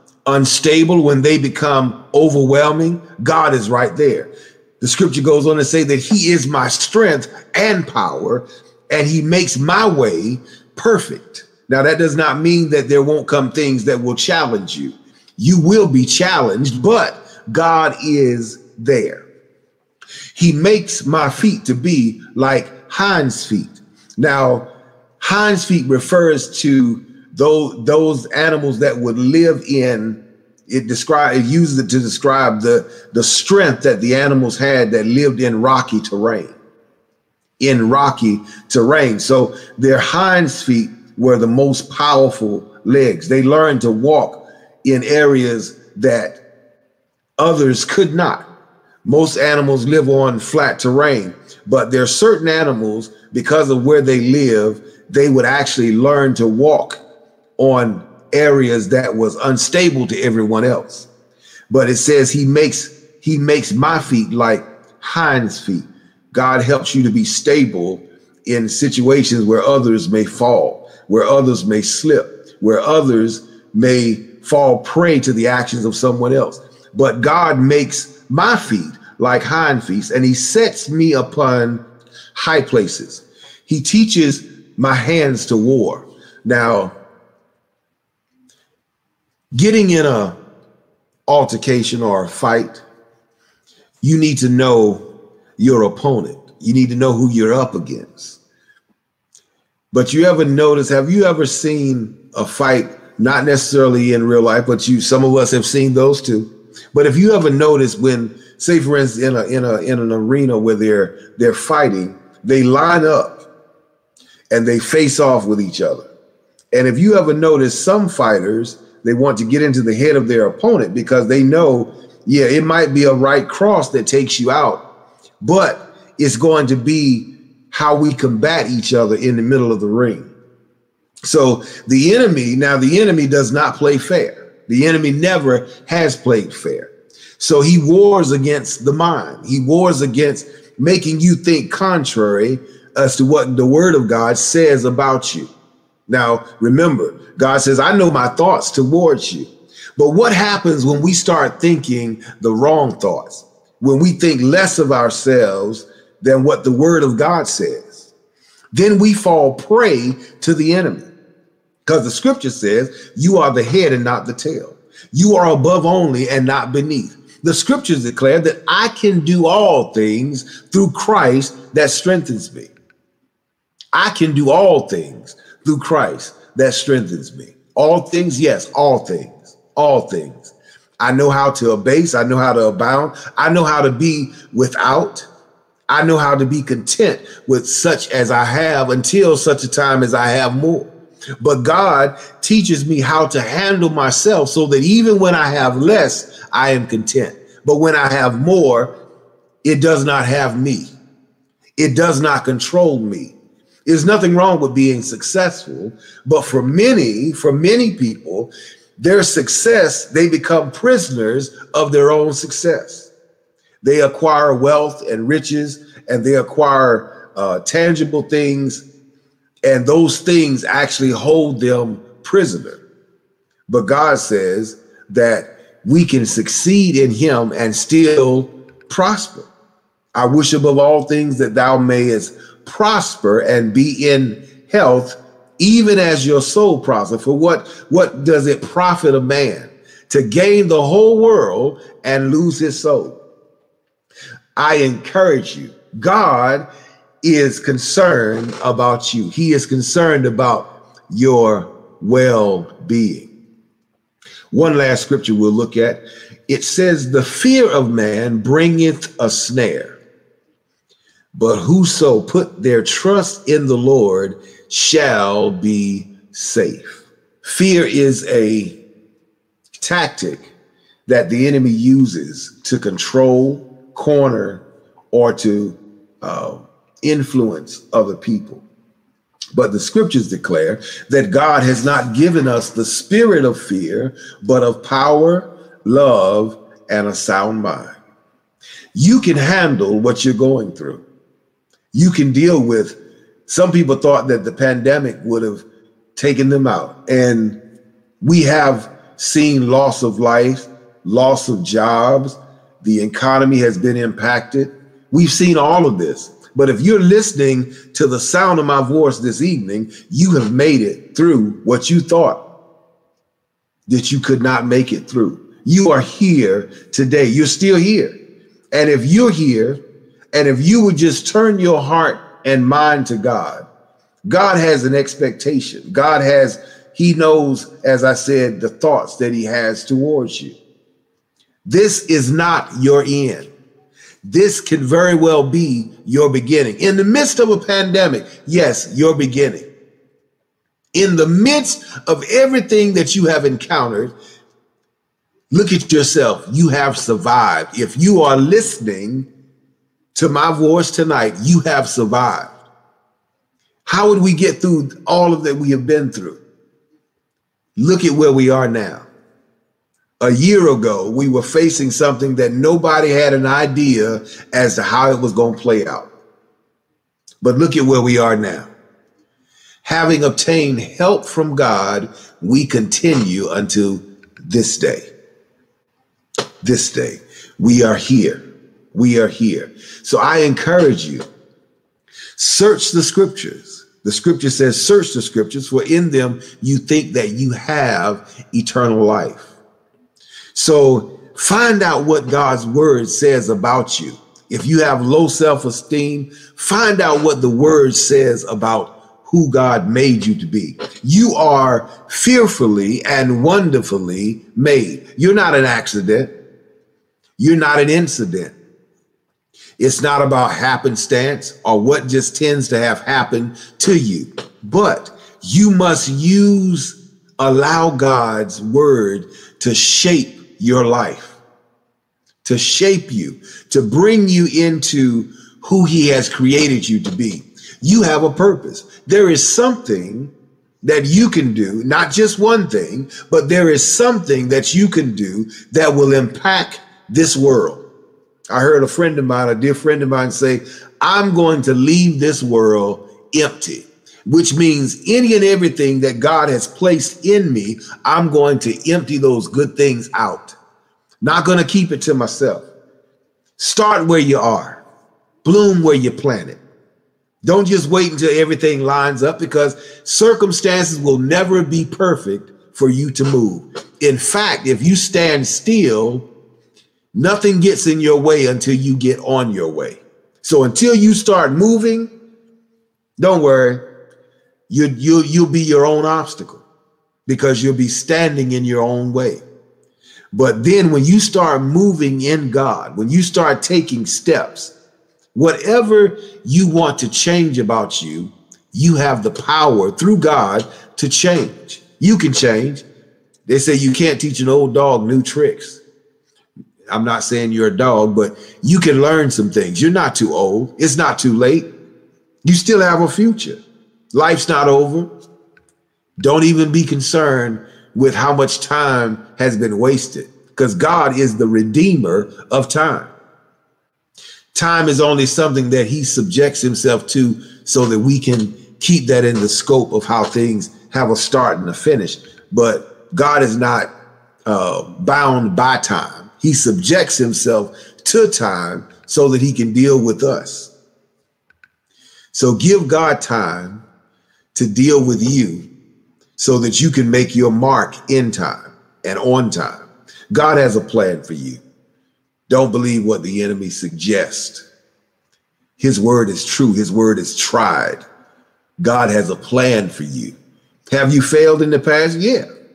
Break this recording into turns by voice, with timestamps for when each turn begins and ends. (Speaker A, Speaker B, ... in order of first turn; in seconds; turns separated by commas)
Speaker A: 0.3-19.3, Speaker A: 20.3-24.6, Speaker A: 25.2-36.6, Speaker A: 37.6-46.4, Speaker A: 47.4-48.5, Speaker A: 49.0-57.0, Speaker A: 57.6-61.1, Speaker A: 61.7-81.8, Speaker A: 82.3-87.0, Speaker A: 89.5-90.4, Speaker A: 91.3-92.8, Speaker A: 94.0-95.0, Speaker A: 95.6-98.4, Speaker A: 99.9-113.4, Speaker A: 114.5-116.1, Speaker A: 116.7-124.8, Speaker A: 125.4-130.3, Speaker A: 131.3-145.5, Speaker A: 146.1-158.1, Speaker A: 158.7-161.1, Speaker A: 161.9-172.7, Speaker A: 173.9-185.3, Speaker A: 185.9-198.9, Speaker A: 199.6-200.9, Speaker A: 201.8-203.3, Speaker A: 203.9-213.1, Speaker A: 213.8-218.8, Speaker A: 219.7-222.8, Speaker A: 223.7-229.5, Speaker A: 230.2-243.2, Speaker A: 244.6-246.7, Speaker A: 247.2-253.3, Speaker A: 254.5-260.0, Speaker A: 261.4-268.8, Speaker A: 269.8-270.5, Speaker A: 271.1-278.6, Speaker A: 279.6-287.9, Speaker A: 288.9-291.1, Speaker A: 291.9-295.6, Speaker A: 296.2-297.6, Speaker A: 298.2-312.4, Speaker A: 313.9-318.2, Speaker A: 318.7-319.8, Speaker A: 320.3-323.7, Speaker A: 324.3-330.6, Speaker A: 331.7-333.5, Speaker A: 334.3-339.7, Speaker A: 340.9-344.1, Speaker A: 345.5-349.3, Speaker A: 350.1-352.5, Speaker A: 353.9-356.4, Speaker A: 357.8-359.1, Speaker A: 360.2-366.1, Speaker A: 367.4-368.7, Speaker A: 369.8-375.1, Speaker A: 376.6-381.2, Speaker A: 382.4-389.6, Speaker A: 390.5-406.3, Speaker A: 407.4-408.6, Speaker A: 409.8-421.4, Speaker A: 422.4-430.3, Speaker A: 430.8-437.8, Speaker A: 438.5-450.6, Speaker A: 451.2-452.7, Speaker A: 453.6-454.8, Speaker A: 455.4-456.6, Speaker A: 457.4-466.3, Speaker A: 467.1-472.1, Speaker A: 473.2-473.8, Speaker A: 474.7-476.6, Speaker A: 477.3-479.5, Speaker A: 480.3-484.7, Speaker A: 485.4-492.9, Speaker A: 493.5-495.8, Speaker A: 496.9-501.7, Speaker A: 502.4-503.6, Speaker A: 504.1-505.1, Speaker A: 506.2-513.1, Speaker A: 514.5-523.9, Speaker A: 524.5-530.7, Speaker A: 532.3-533.8, Speaker A: 534.5-535.7, Speaker A: 536.4-541.6, Speaker A: 542.5-544.7, Speaker A: 545.8-548.0, Speaker A: 548.8-550.4, Speaker A: 550.9-552.5